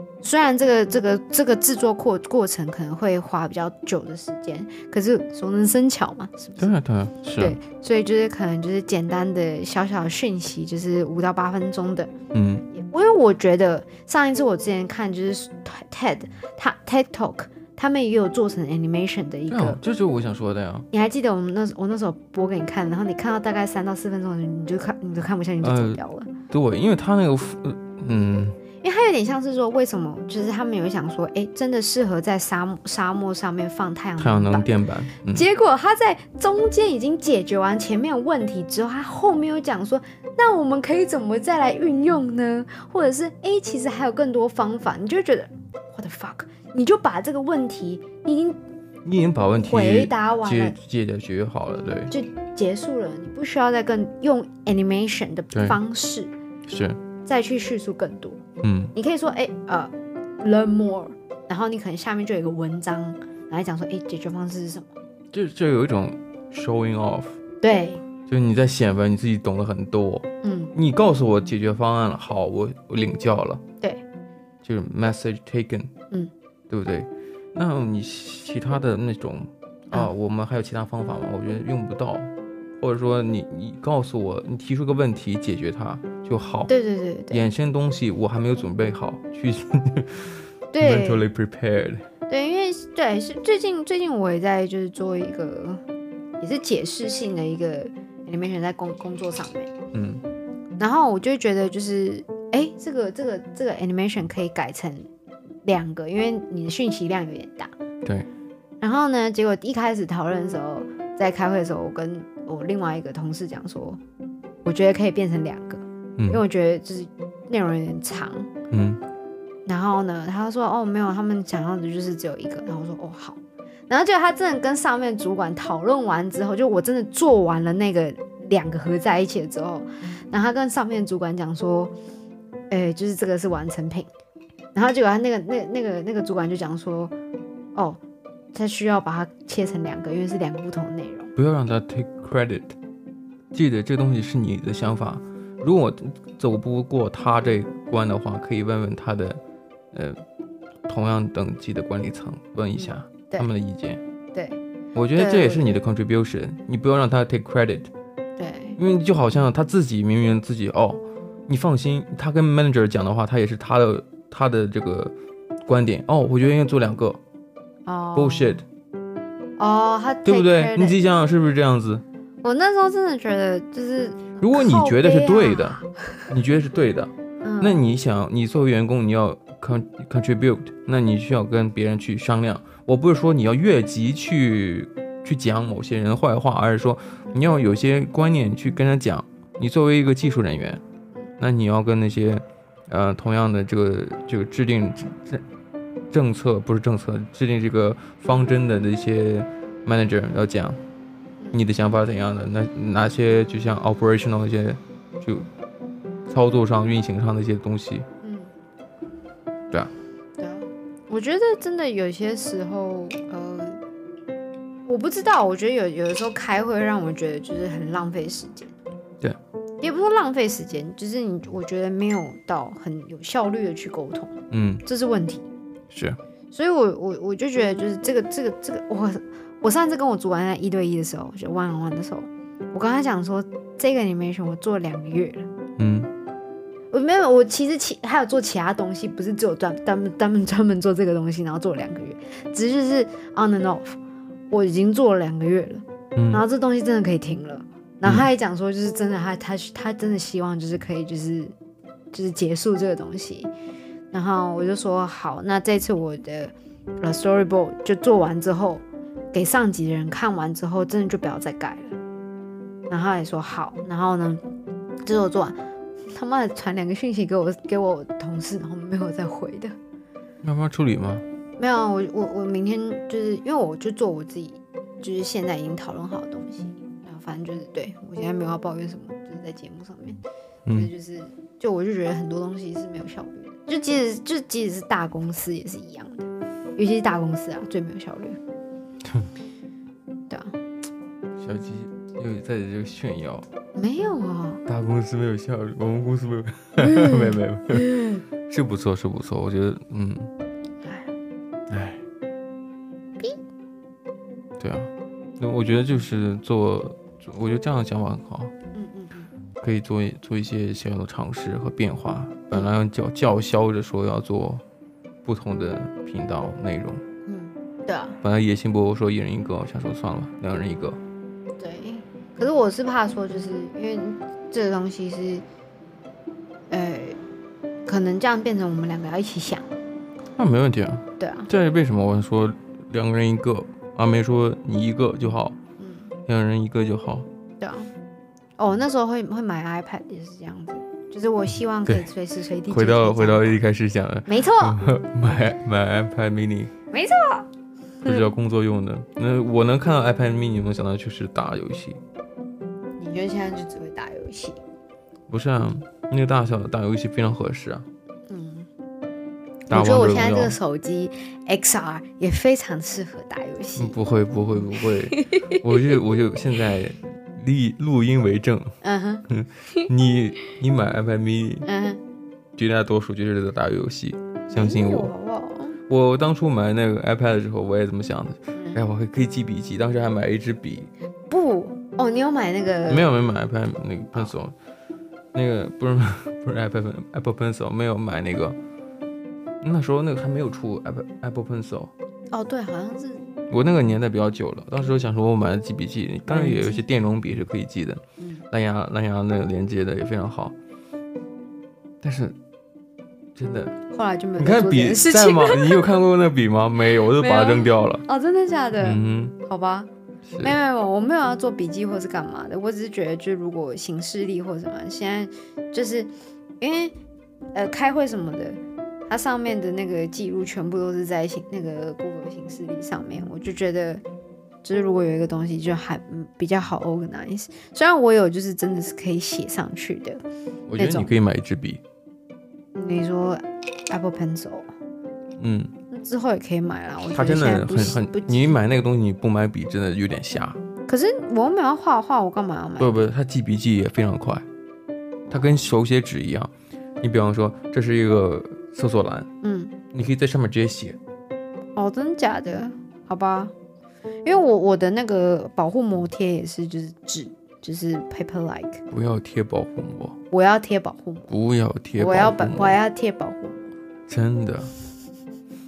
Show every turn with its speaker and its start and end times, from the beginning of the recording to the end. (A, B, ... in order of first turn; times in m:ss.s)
0:00.2-0:06.7 A
0:06.6-0:07.6 B
0:07.4-0:12.1 A
0:12.3-0:12.7 B
0:12.7-0:19.8 A
0:19.5-0:20.9 B
0:20.9-0:26.3 A
0:25.6-0:28.6 B
0:28.8-0:34.7 A
0:34.2-0:35.5 B
0:35.3-0:48.6 A
0:49.0-0:52.1 B
0:49.6-0:50.8 A
0:52.1-0:56.3 A
0:55.5-0:55.8 B
0:56.7-0:57.0 B
0:57.2-0:58.4 A
0:58.6-0:58.9 B
0:59.0-1:04.9 A
1:05.3-1:07.4 B
1:07.6-1:08.0 A
1:08.3-1:13.6 B
1:10.4-1:10.7 A
1:14.6-1:15.9 B
1:16.7-1:26.7 B
1:26.7-1:27.5 A
1:27.3-1:32.0 B
1:30.7-1:31.2 A
1:32.3-1:35.8 A
1:36.4-1:39.7 A
1:39.9-1:40.2 B
1:40.8-1:45.1 A
1:45.6-1:47.7 A
1:48.8-1:54.0 A
1:54.6-1:58.5 A
1:58.7-1:59.0 B
1:59.7-2:11.9 A
2:12.7-2:14.1 A
2:14.8-2:17.1 A
2:17.8-2:18.0 A
2:18.5-2:21.3 A
2:21.4-2:22.8 B
2:23.5-2:29.4 B
2:29.9-2:30.2 B
2:30.9-2:34.0 B
2:32.8-2:33.5 A
2:34.3-2:34.6 A
2:35.0-2:37.9 B
2:35.2-2:35.8 A
2:38.4-2:38.8 A
2:38.8-2:45.1 B
2:45.7-2:47.2 B
2:47.8-2:48.6 A
2:48.2-2:48.6 B
2:49.6-2:51.0 A
2:50.2-2:52.0 B
2:52.4-2:56.3 A
2:54.4-3:10.8 B
2:57.4-2:57.8 A
3:11.4-3:15.4 B
3:16.1-3:20.8 B
3:21.5-3:25.5 B
3:26.3-3:28.1 B
3:28.2-3:28.5 A
3:30.4-3:33.8 A
3:34.9-3:38.7 A
3:39.8-3:45.5 A
3:44.5-3:44.8 B
3:45.9-3:46.2 B
3:46.5-3:55.5 A
3:55.8-3:56.1 B
3:56.9-4:04.0 A
4:04.5-4:11.5 A
4:06.2-4:06.4 B
4:12.1-4:13.5 A
4:14.1-4:22.0 A
4:22.9-4:24.4 A
4:25.0-4:25.6 A
4:26.1-4:29.8 A
4:30.4-4:31.2 B
4:31.6-4:40.2 A
4:40.7-4:48.4 A
4:50.3-4:50.6 A
4:51.4-4:53.5 B
4:53.8-4:54.6 A
4:54.7-5:00.3 B
4:56.8-4:58.2 A
5:00.8-5:01.1 A
5:01.7-5:02.0 B
5:04.6-5:08.5 B
5:08.7-5:09.3 A
5:09.6-5:14.6 B
5:15.2-5:17.0 B
5:17.3-5:18.2 A
5:18.2-5:21.0 B
5:21.6-5:25.4 A
5:26.7-5:27.2 A
5:27.9-5:29.7 A
5:30.4-5:35.6 B
5:31.2-5:31.5 A
5:35.8-5:36.1 A
5:36.3-5:37.3 B
5:37.6-5:37.9 A
5:38.6-5:43.6 A
5:42.7-5:46.7 B
5:44.3-5:44.8 A
5:46.9-5:47.5 A
5:48.0-5:52.0 B
5:53.0-5:54.6 A
5:55.3-5:57.9 B
5:58.3-5:58.7 A
5:59.7-6:00.6 B
5:59.7-6:04.0 A
6:03.8-6:08.8 B
6:04.7-6:06.0 A
6:08.8-6:09.9 A
6:09.3-6:11.7 B
6:11.6-6:12.0 A
6:12.6-6:15.1 B
6:14.5-6:15.8 A
6:15.9-6:20.9 B
6:18.6-6:18.8 A
6:21.3-6:23.1 A
6:22.9-6:24.5 B
6:25.3-6:28.6 B
6:29.6-6:31.9 B
6:32.3-6:33.3 A
6:33.5-6:40.6 B
6:36.3-6:36.8 A
6:38.2-6:38.4 A
6:42.0-6:42.4 B
6:43.4-6:43.8 B
6:43.9-6:46.0 A
6:44.4-6:48.0 B
6:47.1-6:49.9 A
6:48.8-6:49.4 B
6:50.3-6:50.6 B
6:50.4-6:56.9 A
6:57.5-7:04.0 A
7:04.6-7:10.2 A
7:10.7-7:11.8 B
7:10.8-7:11.2 A
7:12.8-7:14.7 A
7:15.4-7:15.7 B
7:15.9-7:18.6 A
7:17.1-7:20.6 B
7:20.9-7:23.1 A
7:22.8-7:24.5 B
7:25.3-7:25.6 A
7:25.3-7:29.3 B
7:29.4-7:29.7 A
7:29.9-7:31.0 B
7:31.8-7:33.5 A
7:34.2-7:38.8 A
7:38.9-7:40.2 B
7:40.3-7:41.3 A
7:41.3-7:42.8 B
7:42.0-7:43.7 A
7:44.1-7:44.8 B